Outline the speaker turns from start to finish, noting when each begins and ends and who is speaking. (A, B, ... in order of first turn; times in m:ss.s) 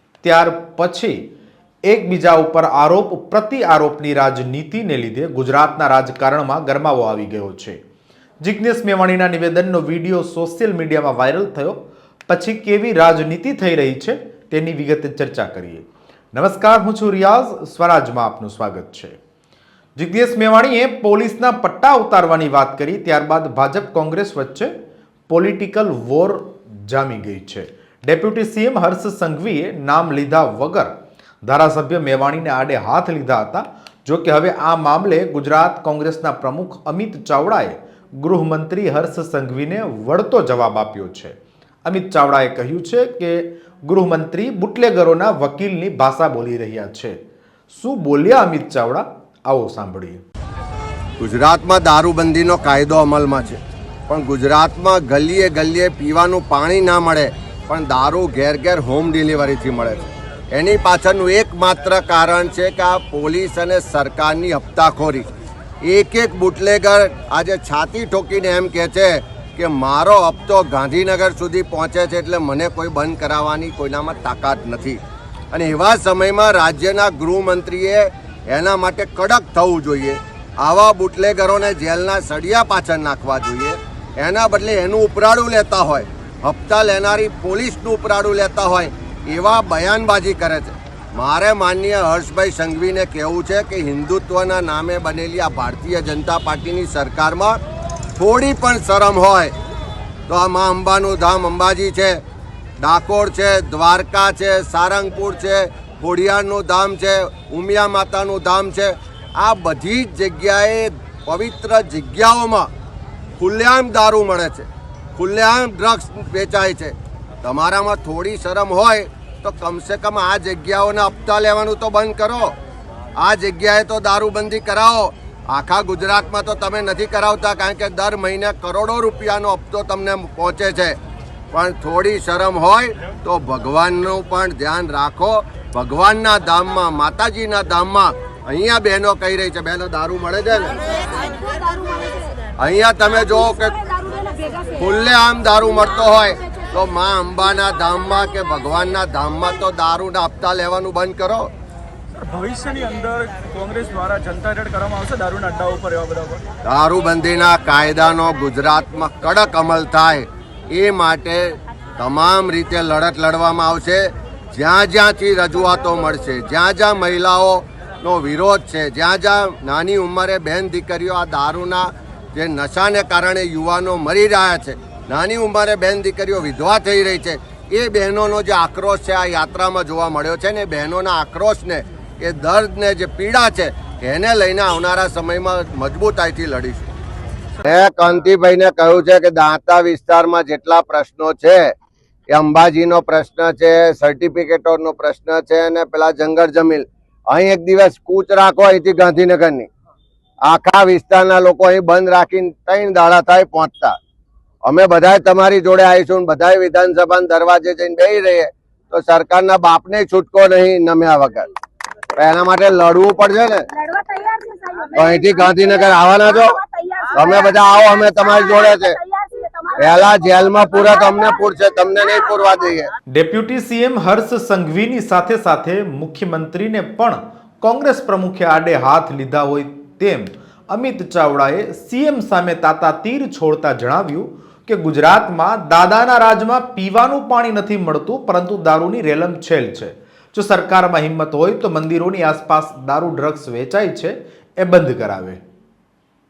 0:00.2-0:01.2 A
0:01.9-0:07.8 A
0:08.4-0:11.8 A
0:12.3-0:19.2 A
0:20.0-0:24.7 A
0:25.3-0:30.9 A
0:31.5-0:41.3 A
0:41.8-0:47.2 A
0:47.7-0:50.2 A
0:51.2-1:05.3 B
1:05.8-1:15.0 B
1:15.5-1:37.6 B
1:38.2-1:39.5 B
1:40.3-1:42.2 B
1:42.8-1:52.7 B
1:53.4-2:02.5 B
2:03.2-2:11.0 B
2:11.5-2:21.1 B
2:21.3-2:22.3 C
2:22.6-2:23.9 B
2:24.2-2:24.6 C
2:24.7-2:31.5 B
2:32.1-2:36.4 D
2:36.6-3:06.9 B
3:07.6-3:11.7 B
3:12.3-3:19.7 B
3:20.5-3:23.9 B
3:24.6-3:31.5 B
3:32.2-3:33.7 B
3:33.7-3:40.2 C
3:35.0-3:36.6 B
3:37.1-3:39.0 B
3:39.8-3:42.9 B
3:43.1-4:05.4 A